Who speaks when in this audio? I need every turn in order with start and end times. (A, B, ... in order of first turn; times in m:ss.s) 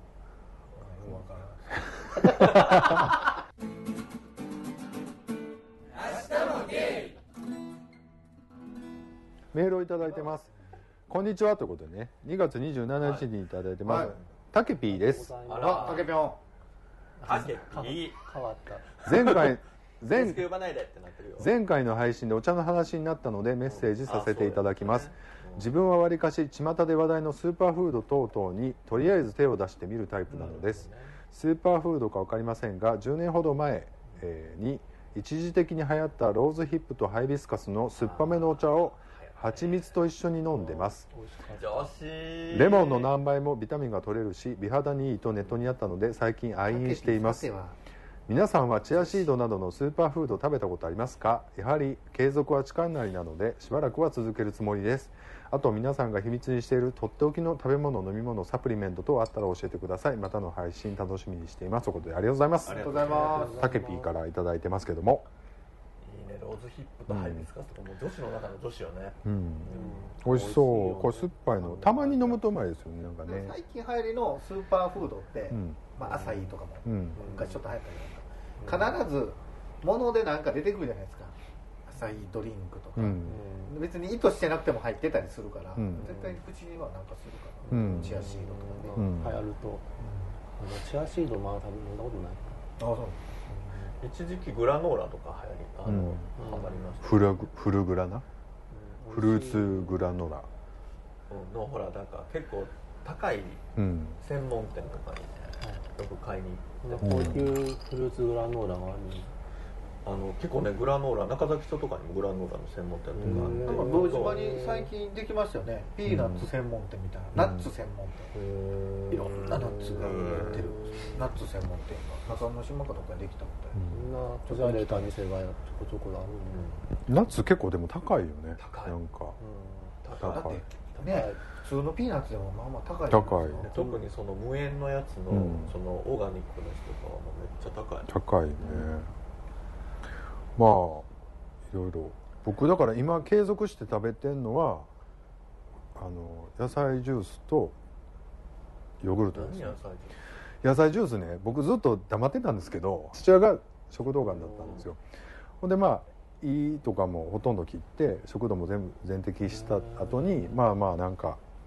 0:00.8-0:02.8 A
0:09.5-0:10.5 B
0:11.1-0:15.3 B
0:13.0-0:13.3 C
0:13.8-0:14.2 A
0:13.9-0:14.2 C
0:14.8-0:16.2 D
0:15.4-0:16.2 C
0:15.6-0:16.4 A
0:17.2-0:19.4 D
0:17.2-0:18.2 C
0:19.0-0:20.5 B
0:20.1-0:21.5 C
0:21.4-0:41.0 B
0:23.8-0:25.7 C
0:30.3-0:31.2 C
0:38.0-0:39.8 C
0:40.5-0:41.9 D
0:41.5-0:43.1 C
0:42.5-0:47.5 B
0:46.6-0:47.8 A
0:48.3-1:05.3 B
1:02.6-1:03.7 C
1:02.7-1:03.7 A
1:03.0-1:04.2 D
1:06.0-1:10.0 C
1:07.1-1:07.5 B
1:09.2-1:13.5 B
1:09.7-1:12.4 D
1:13.2-1:29.0 A
1:15.5-1:15.9 B
1:16.1-1:16.4 D
1:16.8-1:17.2 B
1:17.2-1:17.6 D
1:17.2-1:17.5 C
1:18.6-1:18.9 C
1:22.9-1:23.4 B
1:23.2-1:23.8 D
1:25.7-1:26.1 B
1:26.0-1:26.4 D
1:27.7-1:28.2 B
1:27.7-1:29.8 D
1:28.9-1:29.4 B
1:30.0-1:30.3 A
1:30.5-1:32.6 D
1:32.8-1:33.4 A
1:33.5-1:33.9 D
1:34.0-1:37.3 C
1:35.8-1:36.3 B
1:36.4-1:36.8 D
1:37.0-1:38.2 B
1:38.7-1:40.1 D
1:39.1-1:40.5 B
1:41.3-1:43.6 C
1:43.8-1:44.2 B
1:44.2-1:47.4 C
1:46.8-1:49.3 D
1:47.0-1:47.5 B
1:50.0-1:54.6 C
1:53.2-1:54.9 D
1:53.2-1:53.6 B
1:53.6-1:58.3 A
1:56.0-1:56.5 B
1:57.3-1:57.7 B
1:58.5-1:59.1 D
1:59.1-2:00.8 C
1:59.1-2:03.8 A
2:03.7-2:04.0 B
2:03.9-2:06.8 D
2:04.5-2:05.1 A
2:06.5-2:06.8 C
2:07.1-2:09.4 B
2:08.6-2:09.0 C
2:09.4-2:10.0 D
2:10.0-2:11.4 C
2:10.2-2:10.6 B
2:10.2-2:13.9 A
2:11.0-2:11.3 D
2:13.1-2:13.7 B
2:13.6-2:18.1 C
2:15.3-2:15.8 B
2:18.1-2:19.1 B
2:18.6-2:18.9 C
2:20.6-2:21.1 B
2:21.7-2:24.9 B
2:25.9-2:27.8 B
2:29.0-2:29.8 B
2:29.2-2:30.2 C
2:30.6-2:35.0 B
2:34.4-2:34.9 C
2:35.6-2:41.4 B
2:39.8-2:40.2 D